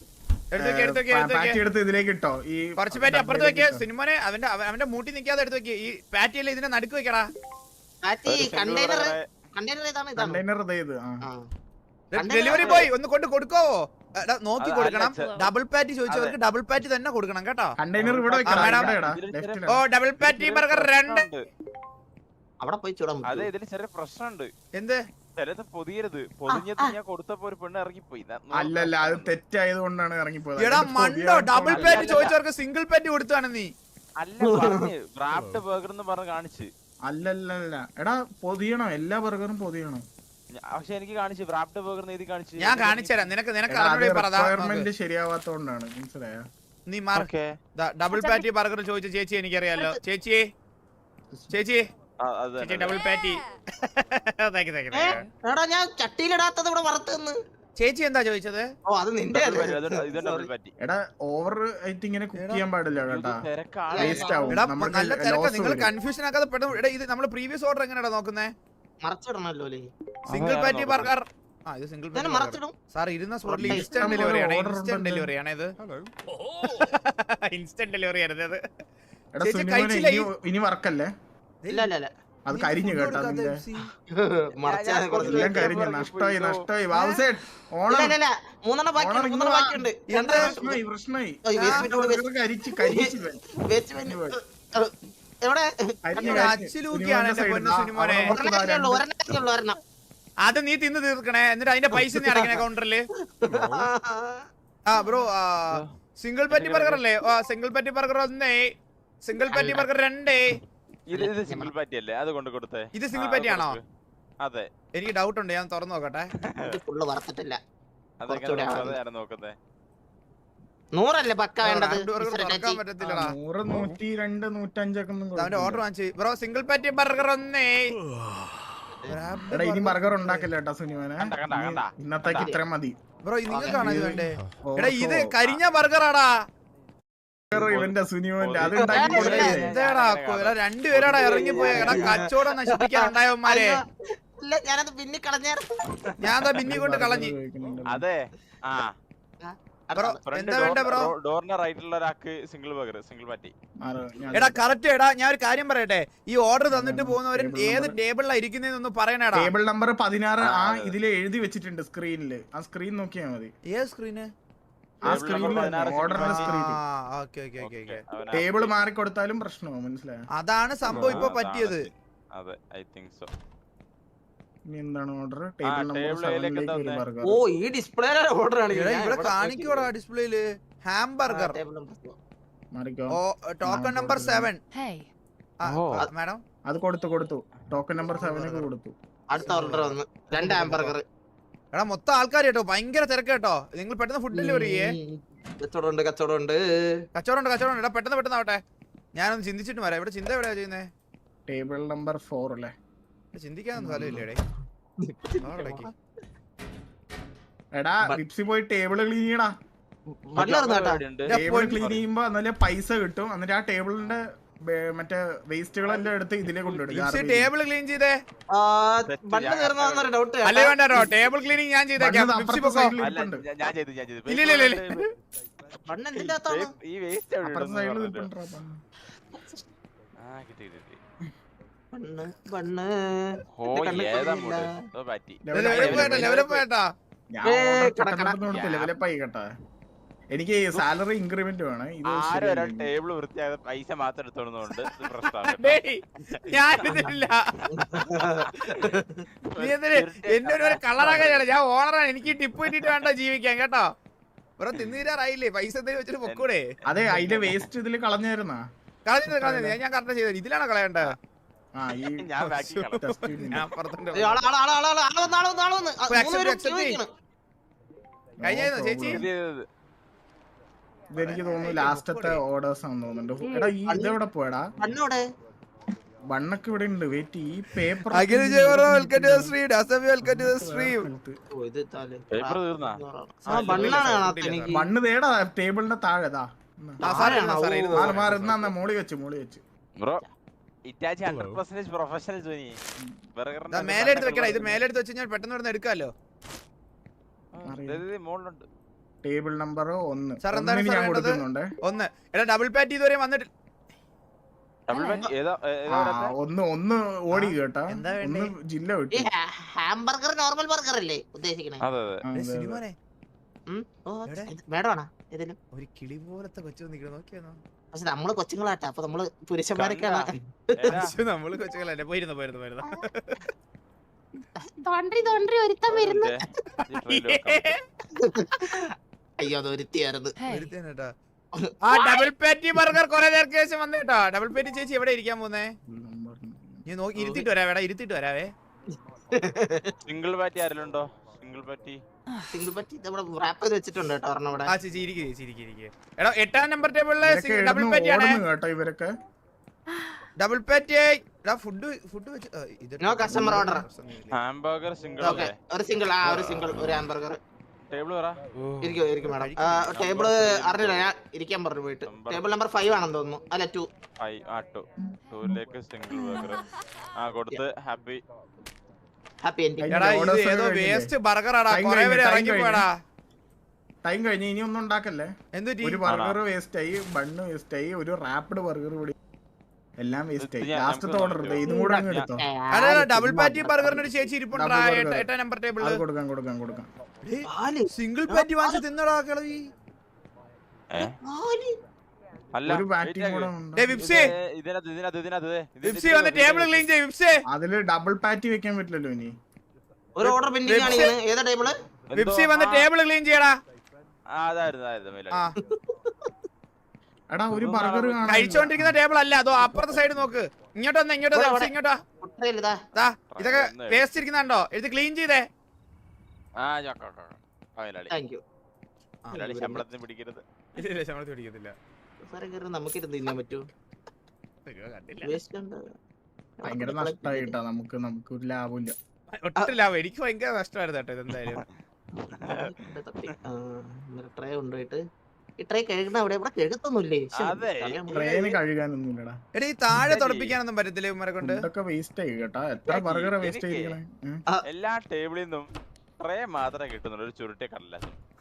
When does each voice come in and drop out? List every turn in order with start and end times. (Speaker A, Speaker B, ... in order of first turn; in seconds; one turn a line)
Speaker A: 0.5-1.6
Speaker B: 0.6-3.9
Speaker A: 2.8-7.3
Speaker C: 8.0-10.4
Speaker D: 8.3-9.2
Speaker B: 10.2-11.2
Speaker A: 12.1-17.8
Speaker C: 12.2-12.9
Speaker D: 12.5-12.9
Speaker D: 14.6-15.4
Speaker D: 16.1-16.4
Speaker B: 17.8-19.8
Speaker D: 18.0-21.4
Speaker A: 18.5-18.9
Speaker A: 19.7-21.2
Speaker C: 22.6-23.5
Speaker D: 23.2-24.5
Speaker A: 24.8-25.0
Speaker D: 25.4-29.3
Speaker C: 26.5-26.9
Speaker B: 28.5-32.1
Speaker A: 30.6-33.7
Speaker D: 31.7-32.4
Speaker C: 31.9-32.3
Speaker D: 34.2-36.7
Speaker C: 34.4-34.9
Speaker B: 37.1-40.0
Speaker D: 40.6-43.3
Speaker A: 42.6-44.9
Speaker B: 43.7-46.5
Speaker A: 46.9-50.5
Speaker D: 47.1-47.5
Speaker C: 48.1-48.5
Speaker C: 49.8-50.0
Speaker A: 51.5-51.9
Speaker D: 52.2-53.0
Speaker A: 52.6-55.3
Speaker C: 54.9-57.4
Speaker A: 57.8-58.7
Speaker C: 58.9-60.5
Speaker D: 59.3-60.7
Speaker B: 60.8-65.9
Speaker A: 62.4-62.6
Speaker D: 63.1-64.4
Speaker C: 63.9-64.6
Speaker A: 64.5-68.5
Speaker C: 69.0-69.9
Speaker D: 70.3-71.1
Speaker A: 70.3-75.8
Speaker C: 72.1-72.8
Speaker C: 73.5-74.2
Speaker B: 73.6-75.3
Speaker A: 76.6-78.6
Speaker B: 79.4-81.1
Speaker A: 79.4-80.3
Speaker A: 81.6-81.9
Speaker C: 81.7-82.1
Speaker B: 82.5-83.6
Speaker A: 82.5-83.9
Speaker C: 84.1-85.7
Speaker D: 84.6-86.7
Speaker B: 85.2-88.2
Speaker A: 86.9-87.2
Speaker C: 87.9-90.8
Speaker B: 89.0-93.4
Speaker A: 90.1-90.5
Speaker C: 91.5-96.5
Speaker A: 91.6-91.9
Speaker B: 94.0-94.4
Speaker B: 96.1-99.0
Speaker A: 96.2-98.4
Speaker C: 98.0-99.8
Speaker A: 100.5-103.1
Speaker C: 101.9-102.6
Speaker C: 103.2-104.5
Speaker A: 104.9-108.7
Speaker D: 105.7-105.9
Speaker D: 106.5-107.0
Speaker A: 109.2-110.6
Speaker C: 109.5-109.9
Speaker D: 111.1-113.8
Speaker C: 111.1-111.7
Speaker A: 113.0-113.8
Speaker D: 114.4-114.7
Speaker A: 115.0-116.3
Speaker D: 116.4-116.8
Speaker C: 116.6-117.6
Speaker D: 118.2-119.6
Speaker C: 118.3-119.0
Speaker C: 121.0-122.8
Speaker A: 121.6-123.3
Speaker B: 123.0-125.8
Speaker A: 125.4-127.9
Speaker A: 129.1-130.5
Speaker B: 129.5-133.0
Speaker D: 131.2-132.5
Speaker C: 132.3-132.6
Speaker A: 133.2-136.4
Speaker C: 133.5-134.1
Speaker B: 133.7-135.4
Speaker B: 137.5-139.7
Speaker D: 137.5-142.3
Speaker C: 138.7-139.6
Speaker A: 139.1-143.8
Speaker C: 141.2-146.2
Speaker A: 146.2-147.3
Speaker B: 146.6-148.1
Speaker D: 147.9-148.9
Speaker C: 149.4-150.2
Speaker A: 150.0-151.1
Speaker D: 150.3-153.5
Speaker B: 153.8-154.6
Speaker A: 154.3-159.5
Speaker B: 156.7-158.0
Speaker B: 159.3-163.5
Speaker D: 160.4-160.9
Speaker A: 163.7-164.3
Speaker B: 165.0-166.8
Speaker D: 165.1-166.5
Speaker A: 165.1-168.0
Speaker D: 167.6-168.7
Speaker B: 168.3-170.3
Speaker A: 170.4-171.9
Speaker D: 170.8-173.3
Speaker B: 170.9-171.3
Speaker B: 174.7-177.4
Speaker D: 175.7-177.0
Speaker C: 177.2-179.9
Speaker A: 178.7-181.6
Speaker C: 181.3-182.2
Speaker B: 182.7-184.5
Speaker A: 183.1-184.6
Speaker A: 185.6-186.4
Speaker D: 185.6-186.1
Speaker B: 186.7-188.9
Speaker A: 188.2-188.6
Speaker C: 189.3-191.1
Speaker B: 189.5-189.8
Speaker A: 190.4-190.9
Speaker A: 191.7-194.9
Speaker C: 194.3-197.1
Speaker A: 197.2-198.6
Speaker A: 199.2-200.9
Speaker B: 201.5-202.7
Speaker A: 203.3-204.4
Speaker B: 203.8-204.2
Speaker C: 203.8-204.2
Speaker C: 205.0-205.9
Speaker A: 205.4-205.9
Speaker B: 207.8-209.5
Speaker C: 210.3-211.0
Speaker D: 210.4-212.0
Speaker A: 211.3-211.9
Speaker B: 211.3-217.5
Speaker A: 216.7-218.2
Speaker C: 218.5-221.1
Speaker D: 219.1-220.1
Speaker A: 220.4-222.9
Speaker B: 222.0-223.4
Speaker D: 223.0-225.0
Speaker A: 224.3-225.1
Speaker D: 225.8-228.3
Speaker C: 225.9-226.7
Speaker B: 227.4-228.8
Speaker D: 230.2-231.0
Speaker C: 231.9-234.7
Speaker D: 233.5-236.7
Speaker B: 235.5-236.3
Speaker A: 235.5-236.9
Speaker B: 237.3-239.5
Speaker C: 237.4-238.6
Speaker D: 238.5-238.9
Speaker B: 240.3-242.9
Speaker D: 242.1-247.1
Speaker A: 245.4-247.8
Speaker C: 247.7-249.3
Speaker D: 248.4-251.4
Speaker A: 249.6-253.9
Speaker D: 252.7-253.1
Speaker A: 254.6-256.6
Speaker D: 256.2-257.7
Speaker B: 256.9-258.6
Speaker A: 259.1-261.1
Speaker B: 259.2-259.8
Speaker B: 261.8-262.4
Speaker D: 262.1-263.1
Speaker A: 262.4-264.4
Speaker B: 262.9-263.7
Speaker C: 264.1-267.1
Speaker A: 266.1-267.0
Speaker B: 268.4-269.3
Speaker A: 268.4-269.3
Speaker D: 269.1-269.7
Speaker B: 271.1-274.7
Speaker A: 271.2-272.4
Speaker C: 273.9-274.2
Speaker C: 274.8-275.2
Speaker B: 276.3-279.6
Speaker A: 278.1-281.1
Speaker B: 280.2-281.4
Speaker C: 281.5-284.9
Speaker D: 282.3-284.2
Speaker A: 283.5-284.8
Speaker B: 284.7-287.3
Speaker C: 287.0-288.1
Speaker A: 287.0-288.7
Speaker B: 287.9-289.6
Speaker D: 290.9-292.8
Speaker D: 293.4-294.8
Speaker A: 293.7-296.1
Speaker D: 297.5-298.7
Speaker B: 297.6-298.0
Speaker B: 299.2-301.7
Speaker A: 300.4-303.5
Speaker D: 304.9-306.3
Speaker C: 304.9-305.3
Speaker B: 305.9-309.3
Speaker A: 307.3-308.5
Speaker C: 309.1-311.8
Speaker D: 311.8-312.2
Speaker B: 312.2-312.8
Speaker A: 312.3-313.0
Speaker C: 313.7-315.6
Speaker A: 315.7-317.6
Speaker C: 317.9-320.9
Speaker D: 319.8-321.2
Speaker A: 320.9-323.4
Speaker C: 324.6-326.4
Speaker D: 325.9-327.8
Speaker A: 326.8-327.8
Speaker C: 328.1-330.7
Speaker A: 330.4-331.1
Speaker C: 331.6-332.3
Speaker A: 331.8-335.7
Speaker B: 335.9-336.9
Speaker A: 336.9-338.5
Speaker C: 337.2-337.4
Speaker C: 339.3-340.0
Speaker D: 340.1-342.0
Speaker C: 342.5-344.7
Speaker A: 344.7-348.4
Speaker B: 347.2-349.1
Speaker A: 350.4-354.4
Speaker C: 353.0-353.9
Speaker D: 354.3-355.5
Speaker A: 355.2-355.5
Speaker C: 355.2-357.4
Speaker D: 356.2-357.0
Speaker D: 357.9-358.8
Speaker C: 358.8-363.9
Speaker A: 359.2-360.2
Speaker D: 359.9-361.1
Speaker D: 362.1-362.5
Speaker D: 364.2-366.7
Speaker D: 367.2-368.2
Speaker C: 369.4-369.9
Speaker B: 369.8-371.1
Speaker A: 369.9-372.9
Speaker B: 371.7-372.9
Speaker B: 374.1-375.3
Speaker A: 375.6-376.0
Speaker B: 375.8-379.1
Speaker D: 376.1-376.4
Speaker B: 380.0-382.4
Speaker D: 380.4-382.3
Speaker C: 381.6-384.1
Speaker A: 382.7-386.0
Speaker B: 384.5-385.3
Speaker B: 385.8-386.9
Speaker A: 387.2-389.7
Speaker C: 387.5-388.8
Speaker D: 390.9-391.2
Speaker C: 391.0-391.8
Speaker D: 392.5-396.9
Speaker B: 392.7-394.0
Speaker A: 393.8-394.3
Speaker A: 395.8-397.4
Speaker B: 397.5-399.3
Speaker C: 400.2-401.8
Speaker A: 400.2-401.1
Speaker D: 402.1-402.9
Speaker A: 402.1-403.6
Speaker D: 404.4-405.5
Speaker C: 405.6-406.3
Speaker B: 407.3-409.0
Speaker D: 407.5-408.3
Speaker A: 408.3-412.0
Speaker C: 411.3-412.8
Speaker A: 412.9-415.5
Speaker D: 413.3-414.1
Speaker D: 416.6-418.1
Speaker C: 418.1-418.4
Speaker C: 419.3-419.8
Speaker D: 419.4-420.4
Speaker A: 420.8-421.8
Speaker C: 422.3-423.7
Speaker A: 424.7-425.3
Speaker C: 425.2-425.9
Speaker C: 426.6-427.6
Speaker B: 426.6-428.9
Speaker A: 429.3-431.6
Speaker D: 432.3-432.7
Speaker C: 432.4-435.0
Speaker C: 435.6-438.6
Speaker D: 437.4-438.0
Speaker B: 438.1-439.4
Speaker A: 439.6-441.7
Speaker D: 440.0-440.6
Speaker B: 441.4-444.4
Speaker D: 442.9-444.0
Speaker D: 444.7-445.7
Speaker D: 446.2-448.2